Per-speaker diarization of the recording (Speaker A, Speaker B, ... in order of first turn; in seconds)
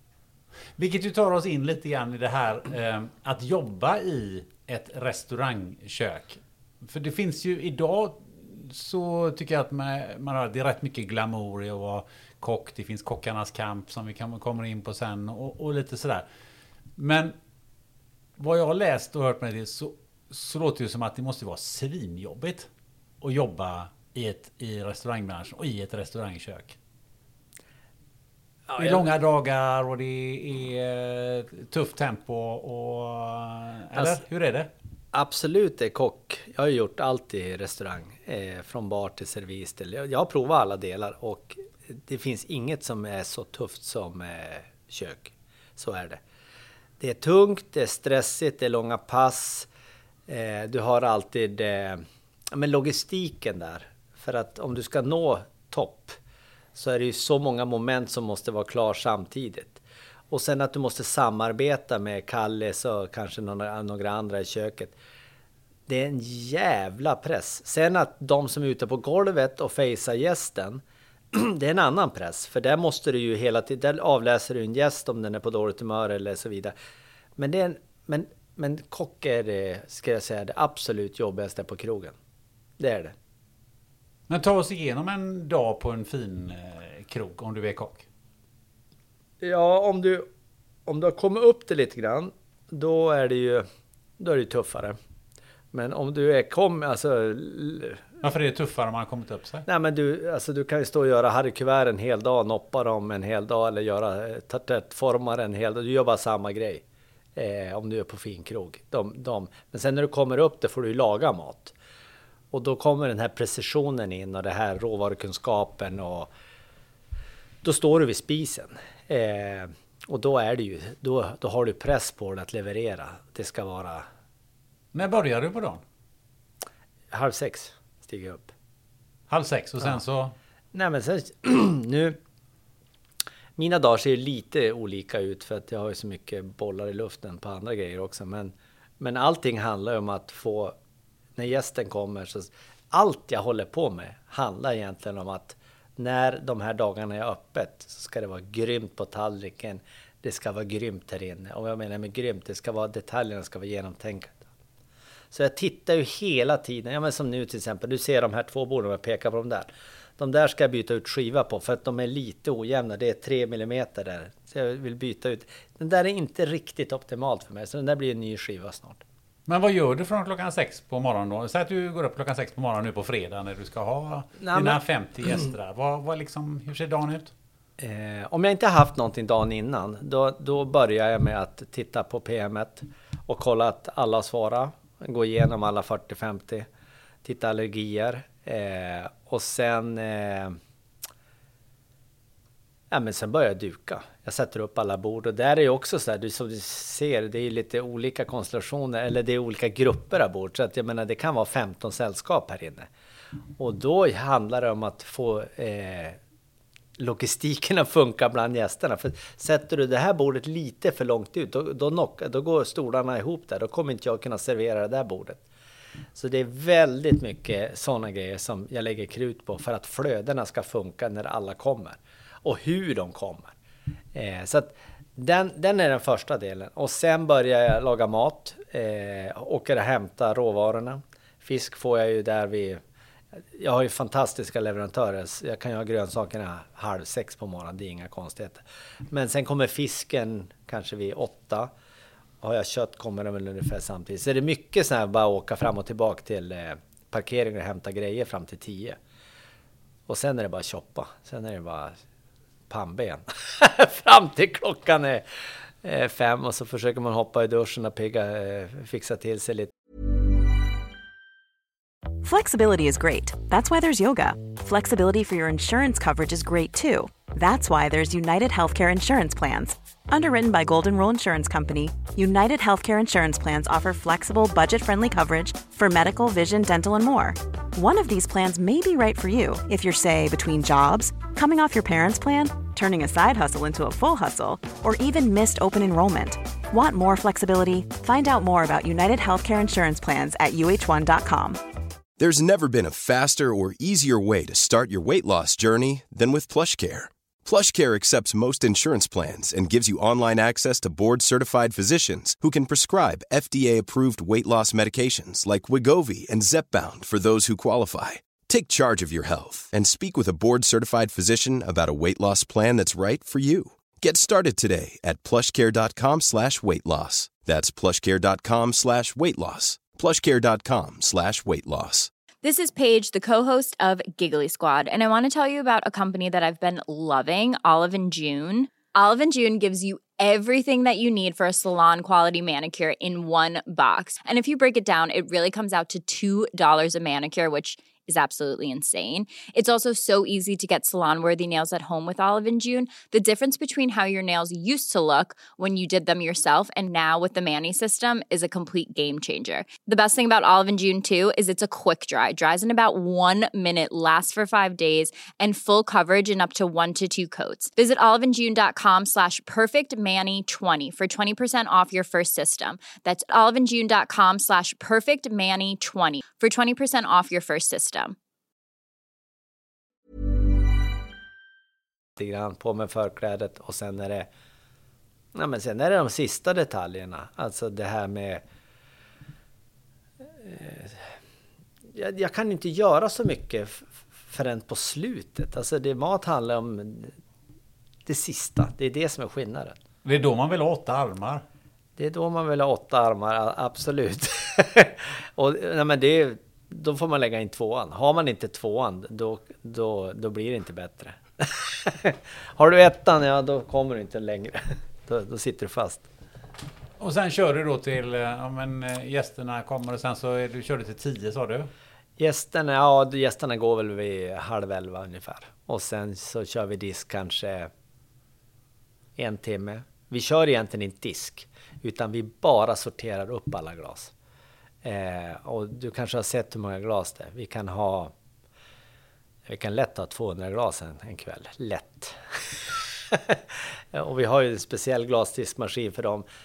Speaker A: 0.8-16.2, 17.0-17.3, 18.4-22.7, 23.2-26.8, 28.8-34.7, 84.3-88.0, 98.2-99.6, 124.9-125.8, 129.3-130.3, 169.5-177.3, 390.0-391.4, 407.0-411.7
Speaker B: 28.7-29.1, 33.9-34.2, 35.1-46.2, 47.0-49.7, 50.3-56.2, 56.7-64.9, 65.9-70.8, 71.3-76.7, 77.4-82.2, 82.8-83.1, 89.4-90.3, 90.8-93.6, 94.2-95.0, 95.7-98.0, 99.7-106.8, 107.3-111.7, 112.5-116.3, 117.6-124.0, 127.1-128.5, 130.7-132.2, 133.6-140.7, 141.4-154.4, 155.3-169.0, 174.4-174.8, 177.8-186.7, 187.2-190.6, 192.9-202.9, 203.6-206.2, 207.0-215.4, 216.1-223.5, 224.1-232.8, 233.5-241.7, 242.4-249.0, 250.1-252.0, 252.7-255.2, 255.8-259.7, 372.2-374.3, 375.3-378.4, 380.4-381.1, 381.9-387.1, 388.1-389.8, 392.0-406.1, 412.2-417.7, 419.1-424.1, 424.8-428.1, 429.4-436.2
Speaker C: 262.2-291.6
Speaker D: 292.2-322.1
Speaker E: 322.4-368.1